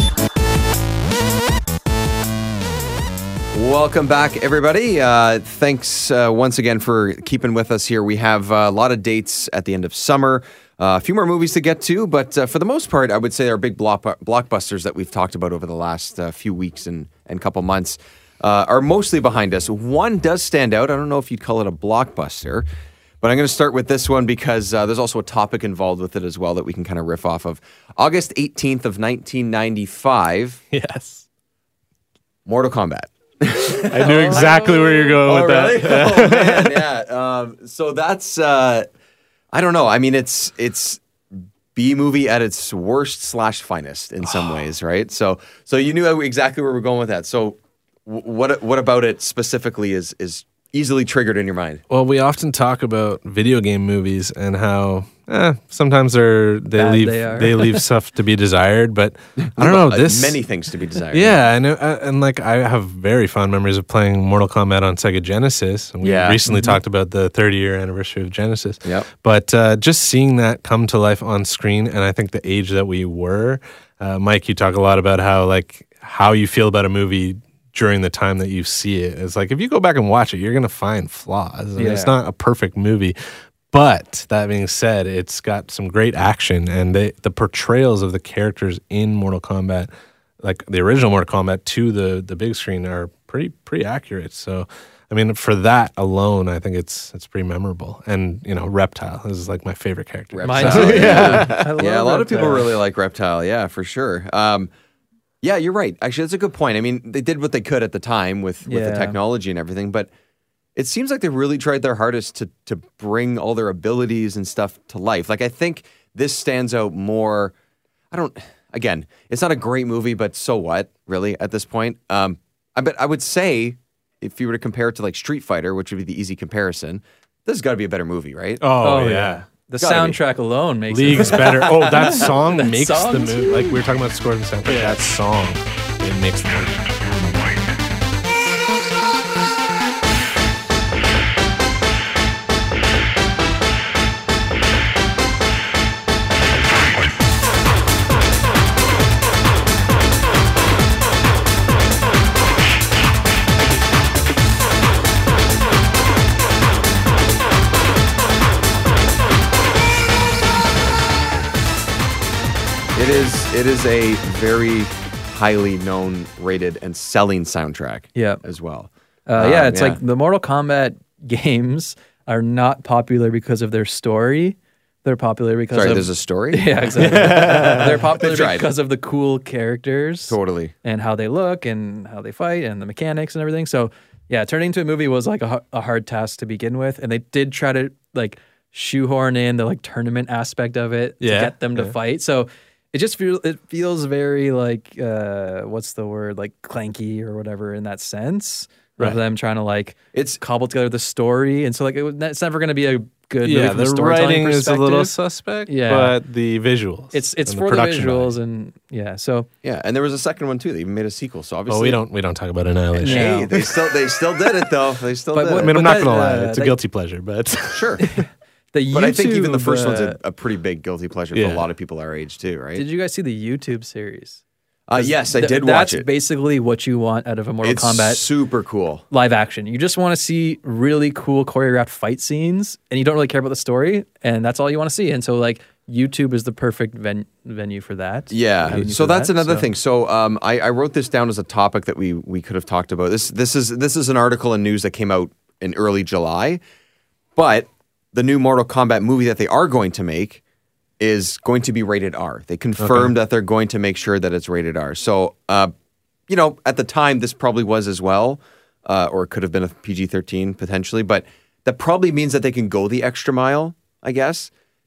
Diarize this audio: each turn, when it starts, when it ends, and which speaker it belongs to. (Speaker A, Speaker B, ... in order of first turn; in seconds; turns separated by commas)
Speaker A: 3.5-22.6, Speaker A: 23.2-30.6, Speaker B: 30.7-31.2, Speaker A: 32.5-38.9, Speaker B: 33.9-36.8, Speaker C: 34.0-35.2, Speaker A: 39.5-41.0, Speaker A: 41.7-51.8, Speaker B: 51.9-60.4, Speaker C: 56.8-57.8, Speaker A: 59.4-61.4, Speaker B: 61.1-83.2, Speaker A: 66.0-66.4, Speaker C: 66.5-66.8, Speaker C: 81.8-82.1, Speaker B: 83.7-89.9, Speaker B: 90.4-101.6, Speaker A: 100.3-104.7, Speaker C: 100.4-102.7, Speaker A: 105.4-110.1, Speaker C: 108.7-109.2, Speaker A: 110.8-117.5, Speaker A: 118.1-128.6, Speaker B: 128.6-129.4, Speaker C: 128.8-133.8, Speaker A: 129.8-130.2, Speaker B: 130.9-137.3, Speaker A: 131.1-132.3, Speaker C: 134.7-135.0, Speaker A: 162.9-170.0, Speaker C: 168.2-168.4, Speaker C: 169.3-205.1, Speaker A: 175.7-178.7, Speaker B: 177.1-177.8, Speaker A: 180.3-180.7, Speaker B: 191.2-191.9, Speaker A: 200.1-200.4, Speaker B: 203.4-208.3, Speaker C: 205.7-206.2, Speaker C: 207.1-209.5, Speaker A: 209.6-212.0, Speaker B: 211.7-213.8, Speaker C: 213.0-213.5, Speaker A: 213.0-215.7, Speaker C: 215.3-216.8, Speaker B: 215.6-218.1, Speaker A: 217.7-218.1, Speaker C: 218.0-220.2, Speaker A: 218.9-222.8, Speaker B: 221.3-221.7, Speaker C: 222.8-224.4, Speaker A: 224.9-226.1, Speaker C: 225.0-228.2, Speaker A: 227.6-229.0, Speaker C: 229.1-239.7, Speaker A: 238.3-246.6, Speaker A: 247.4-250.4, Speaker A: 251.0-255.7, Speaker B: 252.8-253.1, Speaker A: 256.3-264.5